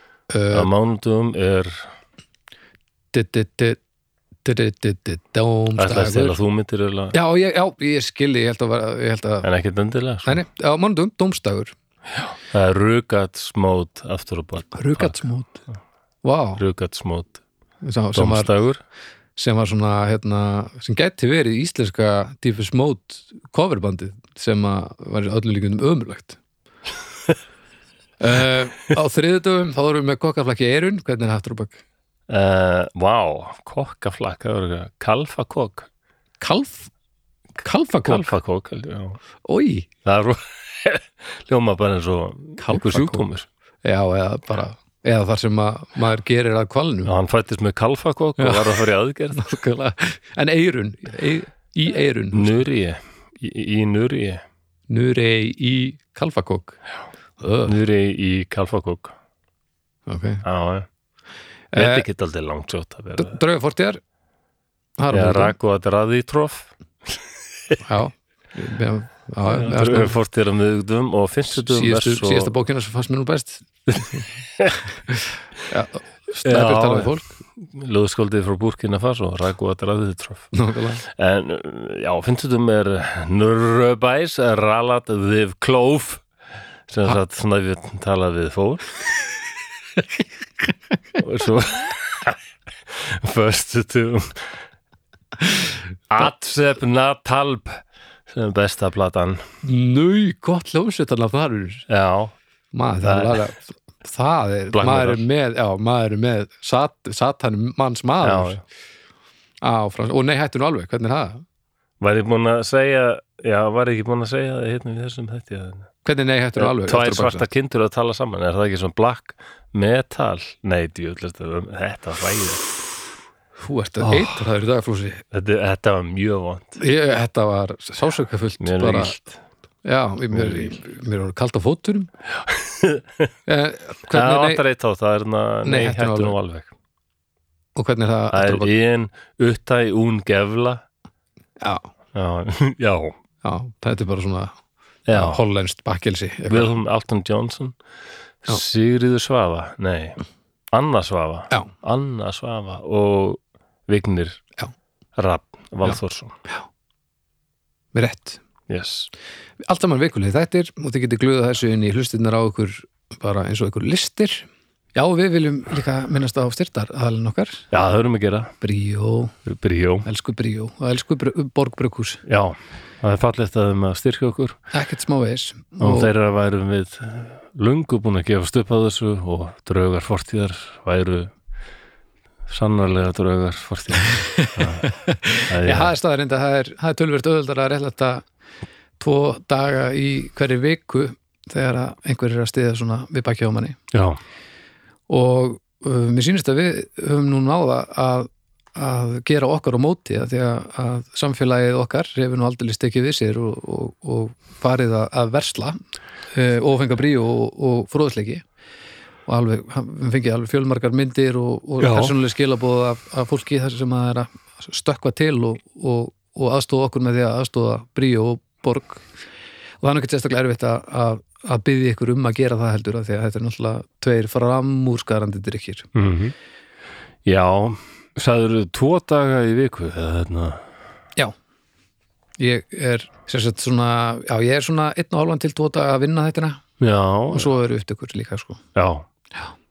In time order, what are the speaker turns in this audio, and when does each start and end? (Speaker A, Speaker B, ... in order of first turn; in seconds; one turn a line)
Speaker A: 0.3-0.7
Speaker B: 0.5-1.9
Speaker A: 3.1-3.8
Speaker A: 4.4-6.4
Speaker B: 5.8-7.2
Speaker A: 7.1-9.5
Speaker B: 9.4-10.4
Speaker A: 10.2-11.7
Speaker B: 12.5-15.2
Speaker A: 14.7-15.6
Speaker A: 16.2-16.6
Speaker B: 16.6-17.4
Speaker A: 17.8-18.5
Speaker B: 18.1-18.8
Speaker A: 19.4-26.4
Speaker A: 28.2-31.8
Speaker B: 32.3-35.9
Speaker A: 36.4-36.9
Speaker A: 37.6-38.4
Speaker B: 38.0-39.2
Speaker A: 39.4-39.9
Speaker B: 40.0-43.5
Speaker A: 42.6-43.2
Speaker A: 43.8-47.1
Speaker B: 47.0-49.5
Speaker A: 48.4-48.8
Speaker A: 49.3-52.6
Speaker B: 52.3-54.4
Speaker A: 54.9-56.8
Speaker A: 57.4-57.7
Speaker B: 57.6-59.1
Speaker A: 60.1-60.4
Speaker B: 60.4-60.9
Speaker A: 61.7-62.0
Speaker B: 61.7-63.4
Speaker A: 63.1-64.0
Speaker A: 65.0-65.5
Speaker B: 65.1-67.8
Speaker A: 67.8-70.2
Speaker B: 69.4-72.5
Speaker A: 71.5-74.3
Speaker A: 75.1-77.3
Speaker B: 76.4-80.5
Speaker A: 80.5-81.0
Speaker B: 81.0-86.2
Speaker B: 86.9-89.0
Speaker B: 91.2-94.5
Speaker B: 96.1-99.4
Speaker A: 99.6-101.8
Speaker B: 101.9-102.3
Speaker A: 102.7-108.6
Speaker B: 103.0-103.4
Speaker B: 104.7-105.2
Speaker B: 108.2-108.6
Speaker A: 109.6-111.4
Speaker B: 112.0-115.9
Speaker A: 116.0-117.4
Speaker B: 116.6-122.7
Speaker A: 123.6-125.2
Speaker B: 124.0-124.4
Speaker B: 125.3-126.8
Speaker A: 126.8-129.2
Speaker B: 128.6-129.4
Speaker A: 129.8-132.1
Speaker B: 130.3-130.8
Speaker B: 132.4-133.3
Speaker A: 133.4-134.6
Speaker B: 134.1-136.7
Speaker A: 135.6-136.3
Speaker A: 137.8-138.7
Speaker B: 138.3-140.8
Speaker A: 141.6-141.9
Speaker B: 142.1-143.2
Speaker A: 143.4-144.5
Speaker B: 145.1-145.4
Speaker A: 145.1-146.7
Speaker B: 146.5-147.8
Speaker B: 148.4-150.2
Speaker B: 150.7-154.4
Speaker B: 155.2-156.3
Speaker A: 157.9-158.4
Speaker B: 158.7-159.1
Speaker A: 159.6-167.7
Speaker B: 167.7-168.5
Speaker A: 168.6-169.3
Speaker B: 169.4-170.1
Speaker A: 170.0-172.2
Speaker B: 172.2-174.6
Speaker A: 174.7-176.1
Speaker B: 175.8-181.3
Speaker B: 182.5-184.9
Speaker A: 184.0-188.2
Speaker B: 185.5-185.9
Speaker A: 189.0-193.8
Speaker B: 193.9-194.2
Speaker A: 195.1-205.8
Speaker A: 206.3-208.4
Speaker A: 209.3-219.1
Speaker B: 211.8-212.1
Speaker A: 219.8-225.9
Speaker B: 225.9-226.3
Speaker B: 227.2-230.6
Speaker A: 232.4-236.6
Speaker B: 236.8-237.5
Speaker A: 237.3-238.6
Speaker B: 238.7-239.1